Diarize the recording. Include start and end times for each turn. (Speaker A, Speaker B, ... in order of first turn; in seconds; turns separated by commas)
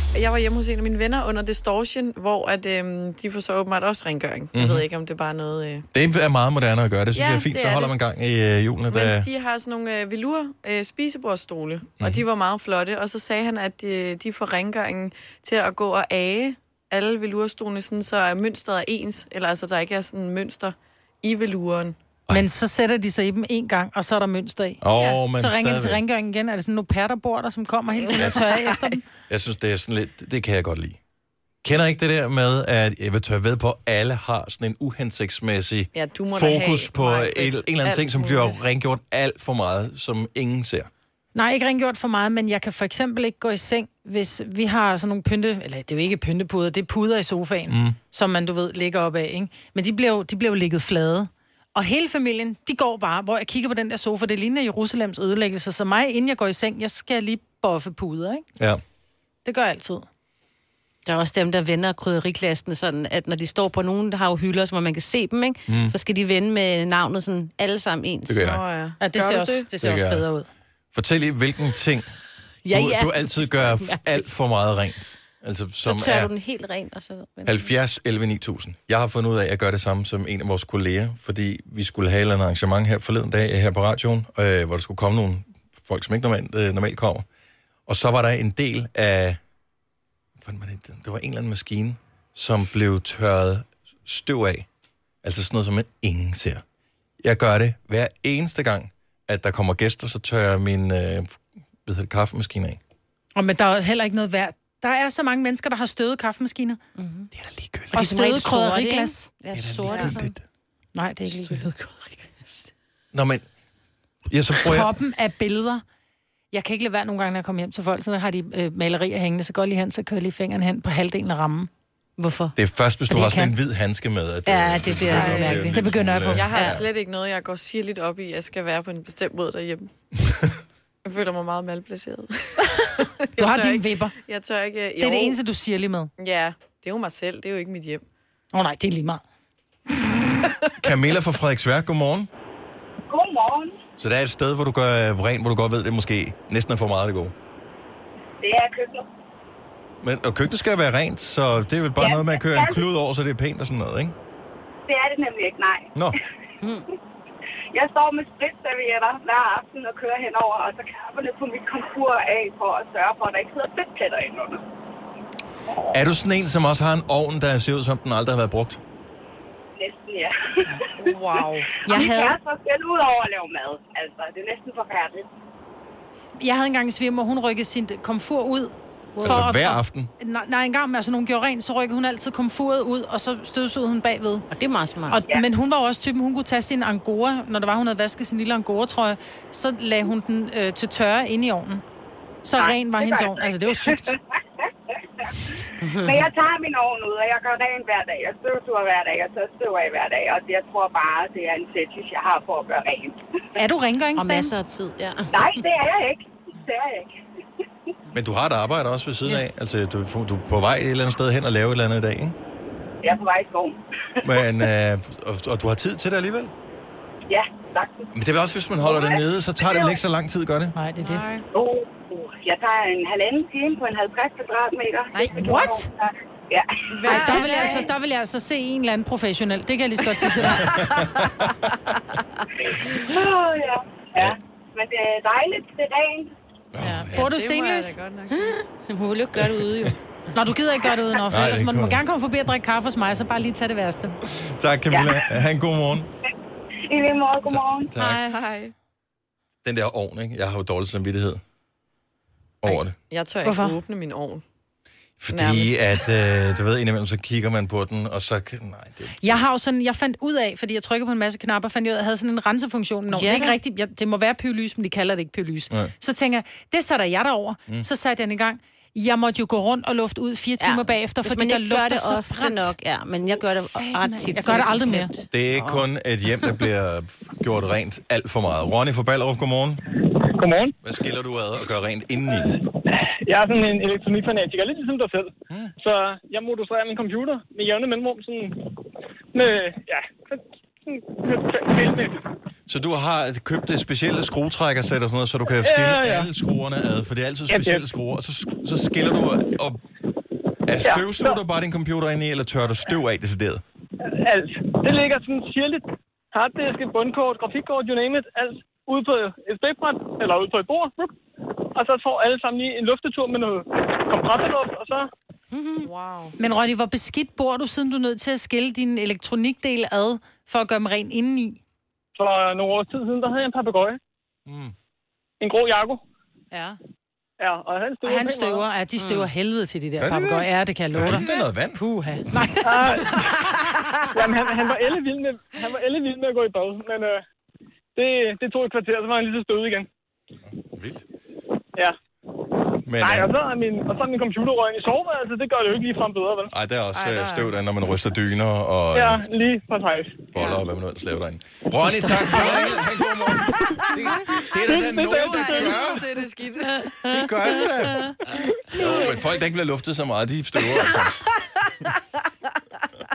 Speaker A: 0.1-5.9, Speaker B: 4.5-4.9, Speaker B: 5.9-9.3, Speaker A: 7.1-7.9, Speaker A: 8.9-22.0, Speaker C: 22.3-29.0, Speaker B: 24.8-26.0, Speaker A: 28.1-28.6, Speaker B: 28.1-28.4, Speaker B: 29.3-31.0, Speaker B: 31.6-40.9, Speaker A: 35.9-38.6, Speaker C: 41.3-58.5, Speaker B: 47.7-48.0, Speaker C: 59.5-60.1, Speaker D: 61.1-68.5, Speaker B: 65.7-65.9, Speaker B: 68.3-68.6, Speaker A: 68.4-69.7, Speaker C: 69.0-70.5, Speaker B: 69.8-70.2, Speaker B: 70.9-72.2, Speaker D: 72.7-74.3, Speaker B: 72.7-76.3, Speaker D: 75.8-77.7, Speaker B: 77.5-87.2, Speaker B: 87.9-89.4, Speaker B: 90.4-94.7, Speaker B: 95.2-96.6, Speaker B: 97.2-102.8, Speaker C: 103.3-106.8, Speaker D: 107.0-107.3, Speaker B: 107.3-108.0, Speaker D: 107.9-110.3, Speaker C: 107.9-109.3, Speaker B: 109.5-110.4, Speaker A: 109.9-110.1, Speaker C: 111.0-112.1, Speaker B: 113.1-113.4, Speaker B: 114.3-115.0, Speaker C: 114.6-115.8, Speaker C: 116.5-121.7, Speaker D: 122.2-122.5, Speaker B: 122.6-126.9, Speaker D: 123.1-123.5, Speaker C: 123.2-123.5, Speaker D: 124.5-125.8, Speaker A: 125.1-125.7, Speaker C: 125.7-126.5, Speaker A: 126.3-129.9, Speaker D: 126.5-126.8, Speaker A: 131.1-135.4, Speaker C: 133.4-134.1, Speaker C: 135.0-136.1, Speaker A: 136.2-138.0, Speaker C: 138.5-139.2, Speaker B: 140.8-142.3, Speaker E: 143.1-143.8, Speaker B: 144.0-147.3, Speaker E: 148.4-149.1, Speaker B: 150.0-154.2, Speaker E: 152.0-152.8, Speaker E: 154.9-155.9, Speaker E: 157.7-164.6, Speaker B: 165.9-168.8, Speaker E: 169.8-171.1, Speaker A: 171.0-171.8, Speaker E: 171.7-175.3, Speaker C: 171.8-172.4, Speaker C: 176.4-184.5, Speaker D: 179.2-179.5, Speaker B: 179.2-180.1, Speaker D: 184.5-185.2, Speaker C: 185.1-191.8, Speaker C: 192.4-194.2, Speaker E: 192.6-194.4, Speaker E: 195.2-203.2, Speaker D: 195.9-196.1, Speaker C: 203.6-204.5, Speaker D: 204.2-205.5, Speaker E: 205.3-207.2, Speaker B: 208.1-212.4, Speaker E: 213.0-214.3, Speaker B: 214.2-216.5, Speaker E: 217.3-218.1, Speaker B: 218.1-220.8, Speaker E: 218.8-220.0, Speaker C: 220.8-221.2, Speaker A: 221.0-221.5, Speaker E: 221.5-227.8, Speaker A: 225.1-225.7, Speaker C: 225.3-225.9, Speaker A: 226.9-227.9, Speaker C: 227.1-230.9, Speaker A: 230.5-231.2, Speaker B: 230.7-231.5, Speaker E: 232.6-236.3, Speaker B: 236.7-237.4, Speaker C: 236.8-238.0, Speaker A: 237.1-238.6, Speaker D: 238.3-240.0, Speaker C: 240.3-244.2, Speaker B: 241.3-242.0, Speaker B: 244.4-246.1, Speaker E: 244.9-245.2, Speaker E: 246.9-247.9, Speaker B: 247.4-248.2, Speaker C: 248.0-248.4, Speaker A: 248.3-248.7, Speaker B: 249.6-251.4, Speaker B: 252.6-253.0, Speaker A: 253.1-254.4, Speaker C: 253.4-253.8, Speaker B: 255.2-259.4, Speaker A: 255.3-255.8, Speaker C: 259.2-272.7, Speaker D: 263.1-263.6, Speaker D: 270.6-275.9, Speaker C: 273.3-275.1, Speaker B: 275.3-279.8, Speaker F: 280.2-280.7, Speaker B: 280.8-282.6, Speaker F: 282.4-288.7, Speaker F: 289.3-292.3, Speaker B: 292.7-299.8, Speaker F: 295.6-296.3, Speaker F: 297.5-297.9, Speaker B: 300.7-303.6, Speaker F: 300.8-301.4, Speaker F: 304.0-311.2, Speaker F: 311.8-315.1, Speaker D: 315.5-315.9, Speaker A: 315.8-316.4, Speaker C: 316.4-321.6, Speaker F: 322.2-324.0, Speaker B: 324.5-324.7, Speaker F: 325.4-326.0, Speaker C: 326.5-326.8, Speaker F: 327.4-328.7, Speaker C: 328.0-333.3, Speaker D: 329.0-329.3, Speaker B: 330.0-331.8, Speaker F: 332.6-333.5, Speaker F: 334.1-337.2, Speaker F: 338.0-339.9, Speaker B: 340.6-341.0, Speaker B: 342.9-343.3, Speaker F: 343.0-346.5, Speaker B: 346.5-349.2, Speaker A: 346.9-347.5, Speaker F: 348.9-350.3, Speaker B: 350.3-356.1, Speaker A: 350.4-350.6, Speaker A: 352.1-357.3, Speaker F: 354.6-355.9, Speaker C: 356.9-357.3, Speaker B: 357.1-358.1, Speaker B: 358.7-361.2, Speaker A: 358.8-359.2